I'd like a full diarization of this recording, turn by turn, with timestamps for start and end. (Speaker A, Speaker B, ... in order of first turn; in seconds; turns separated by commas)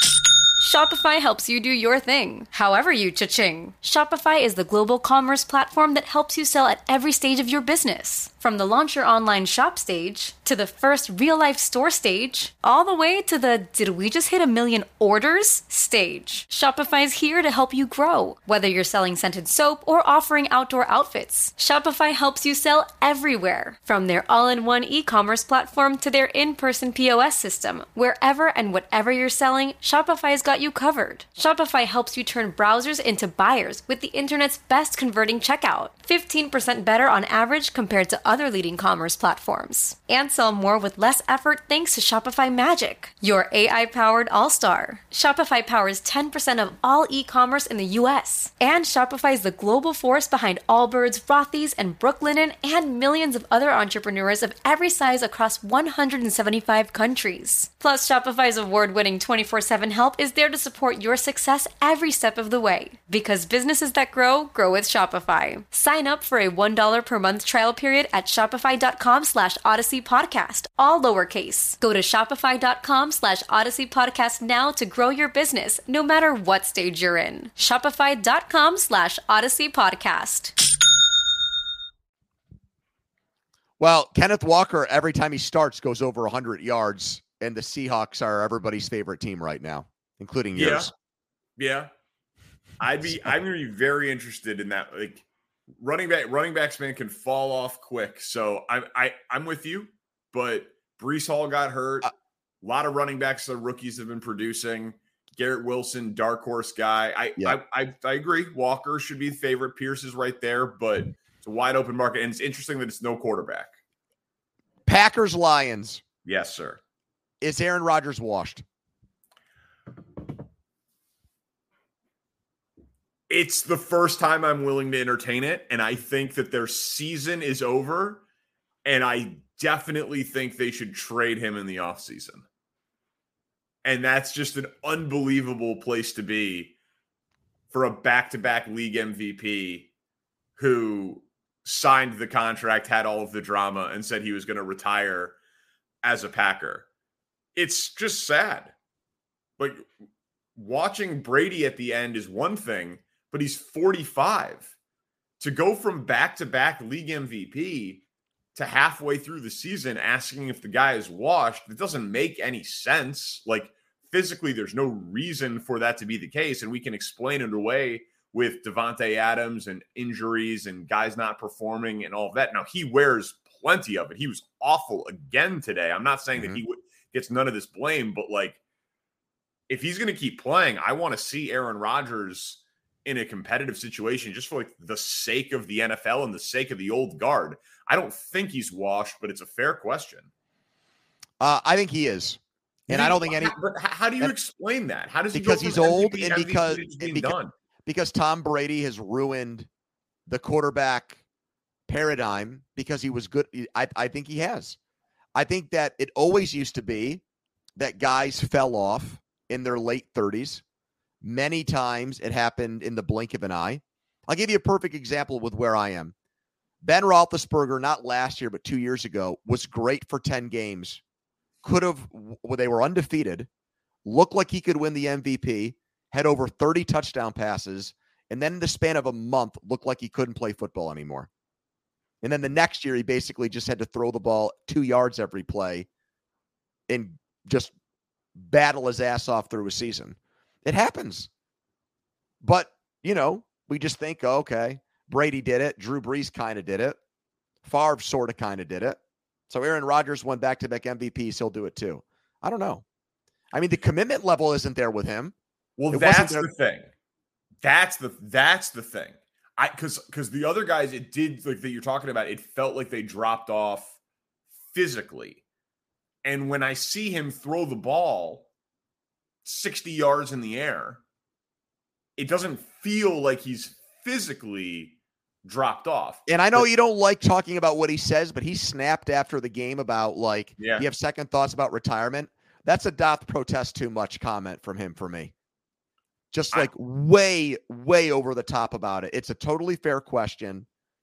Speaker A: 0.6-80.5, Speaker B: 83.8-90.9, Speaker C: 90.5-90.9, Speaker C: 91.6-91.9, Speaker C: 92.8-95.2, Speaker C: 95.8-102.1, Speaker C: 102.6-113.7, Speaker B: 114.8-116.0, Speaker C: 116.2-116.8, Speaker B: 117.4-118.6, Speaker C: 123.3-128.2, Speaker C: 128.8-132.4, Speaker C: 133.8-136.7, Speaker C: 137.7-139.9, Speaker C: 140.6-145.3, Speaker C: 146.0-146.8, Speaker C: 147.5-148.7, Speaker C: 149.6-149.8, Speaker C: 150.6-154.7, Speaker C: 155.4-158.0, Speaker C: 158.5-178.6, Speaker B: 176.3-176.6, Speaker C: 179.7-190.3, Speaker B: 191.4-193.6, Speaker C: 192.9-197.5, Speaker B: 195.3-199.7, Speaker B: 200.3-201.2, Speaker B: 201.9-204.8, Speaker B: 205.3-207.2, Speaker B: 207.8-210.6, Speaker B: 211.2-216.1, Speaker B: 216.8-221.0, Speaker B: 221.6-223.5, Speaker B: 224.0-231.3, Speaker B: 232.2-235.9, Speaker B: 236.9-237.7, Speaker B: 238.3-241.3, Speaker B: 242.4-247.0, Speaker B: 247.6-249.0, Speaker B: 249.5-252.8, Speaker B: 253.5-255.3, Speaker C: 255.8-256.9, Speaker B: 255.9-256.5, Speaker C: 257.6-264.0, Speaker C: 264.7-265.4, Speaker C: 266.2-268.4, Speaker C: 269.4-271.0, Speaker C: 272.2-276.7, Speaker B: 276.3-285.3, Speaker C: 280.6-280.9, Speaker B: 286.3-290.7